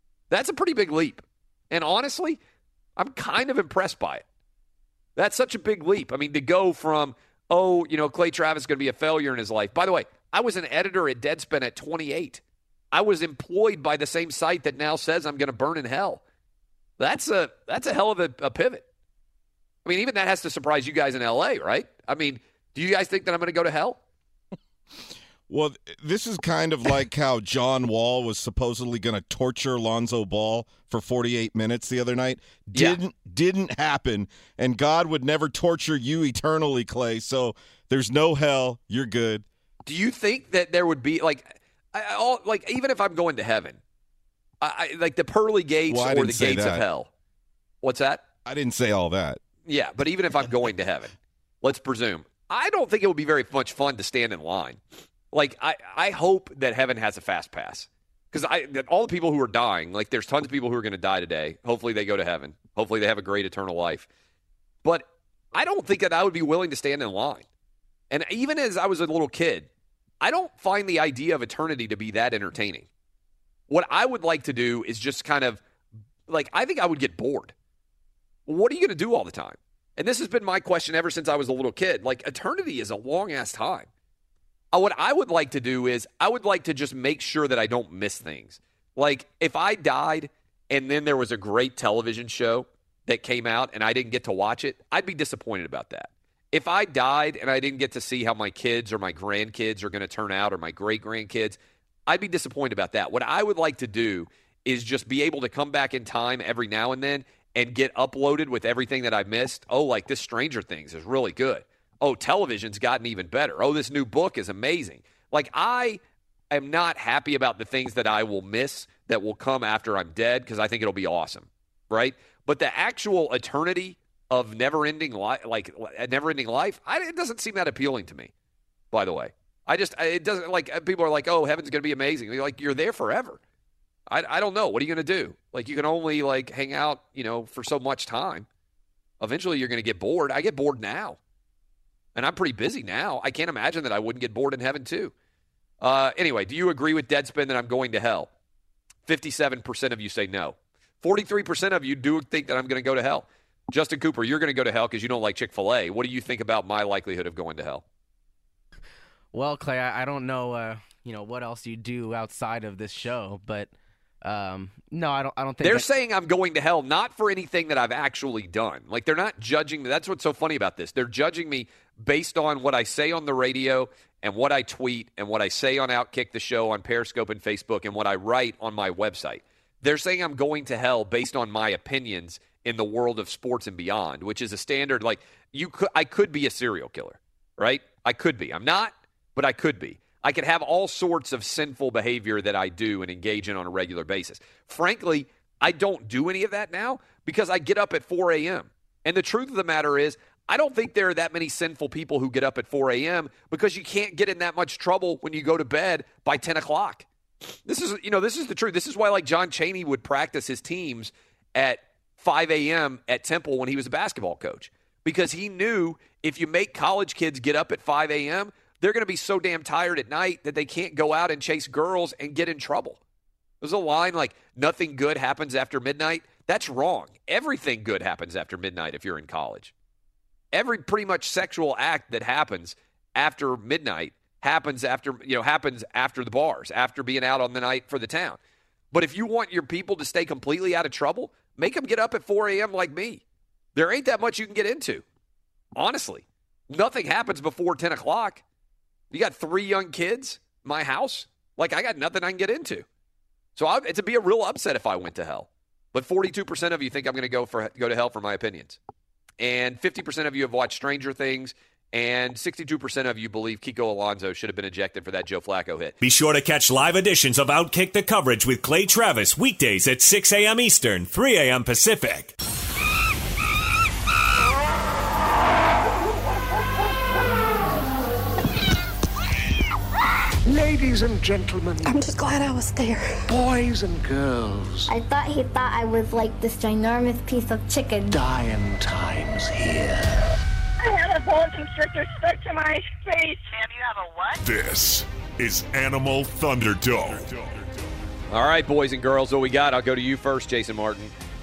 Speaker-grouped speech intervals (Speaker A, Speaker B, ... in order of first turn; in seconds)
Speaker A: 0.3-2.4, 3.0-4.2, 5.2-12.4, 12.9-16.2, 17.0-18.9, 19.8-24.0, 32.7-33.0, 39.8-43.8, 44.6-47.1, 47.8-48.2, 49.6-54.8, 55.3-64.1, 64.8-67.5, 68.1-69.7, 70.2-72.9, 73.7-75.6, 76.3-77.5, 78.5-83.9, 84.7-116.0, 116.5-128.3, 128.9-133.4, 134.1-138.5, 139.2-141.2, 142.1-145.1, 145.8-148.3, 149.1-157.8, 165.6-207.1, 207.7-223.0, 223.6-229.7, 230.5-238.4, 238.9-243.2, 243.7-245.0, 245.8-248.4, 249.1-252.8, 253.6-258.8, 259.4-265.9, 298.3-301.1
Speaker B: 25.5-39.4, 45.9-46.9, 48.4-49.4
Speaker C: 159.3-163.7, 164.2-165.9
Speaker D: 266.0-272.3
Speaker E: 280.4-282.1, 283.3-284.9, 288.1-290.2
Speaker F: 284.9-288.1
Speaker G: 290.8-294.4
Speaker H: 294.4-297.5